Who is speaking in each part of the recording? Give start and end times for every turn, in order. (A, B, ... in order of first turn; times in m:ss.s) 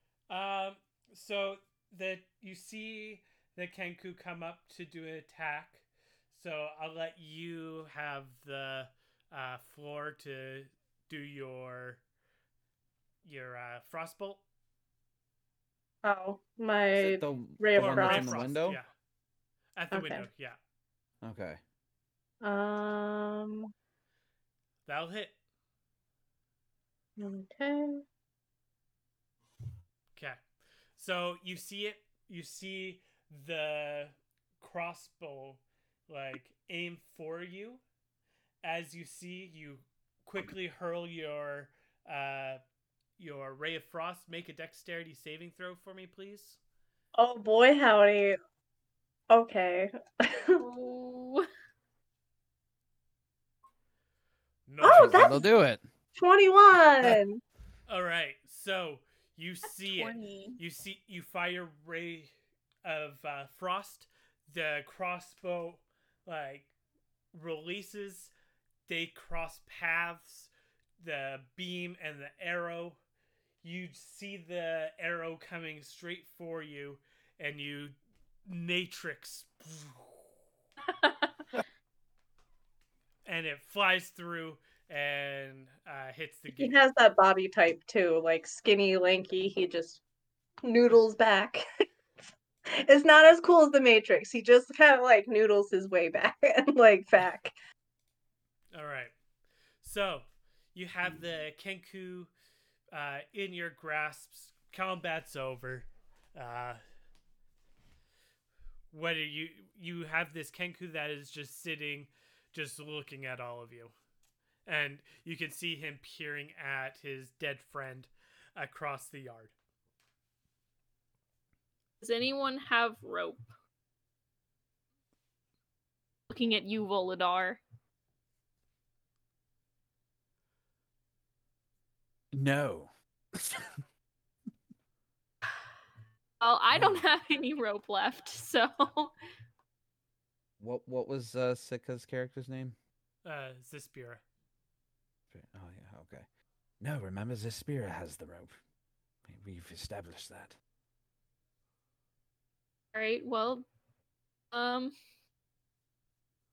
0:00.3-0:12.0 A
0:13.2-0:14.4 A
0:16.0-0:18.4 B
0:17.0-0:18.8 C
0:17.8-0:18.9 A
0:19.8-0:20.6 A
0:19.9-0:20.3 B
0:21.2-0:21.6 C
0:22.4-0:23.7 B
0:24.9-0:25.3 A
0:27.2-0:28.0 B
0:30.2-0:30.4 A
0:31.0-0:37.8 A
0:38.6-0:42.6 A
0:43.2-0:46.6 A
0:47.2-0:48.4 B
0:49.3-0:50.6 B
0:50.6-0:51.5 D
0:54.7-0:55.4 A
0:54.8-0:55.5 B
0:54.9-0:55.8 C
0:56.2-0:57.4 B
0:57.9-1:02.3 A
0:59.9-1:00.6 D
1:02.8-1:06.7 A
1:07.3-1:08.3 A
1:08.9-1:13.0 A
1:13.6-1:20.2 A
1:23.3-1:26.8 A
1:26.6-1:30.0 B
1:30.6-1:31.6 B
1:32.8-1:37.5 B
1:38.7-1:39.1 A
1:39.8-1:42.3 A
1:42.9-1:46.8 A
1:48.9-1:53.9 A
1:54.7-1:59.5 A
2:02.0-2:03.4 D
2:06.3-2:07.6 D
2:12.3-2:13.7 C
2:16.4-2:19.1 D
2:16.7-2:17.0 C
2:20.6-2:22.8 C
2:23.2-2:24.2 A
2:25.3-2:26.2 C
2:26.8-2:28.6 C
2:29.3-2:30.6 C
2:32.9-2:33.6 D
2:34.5-2:34.9 D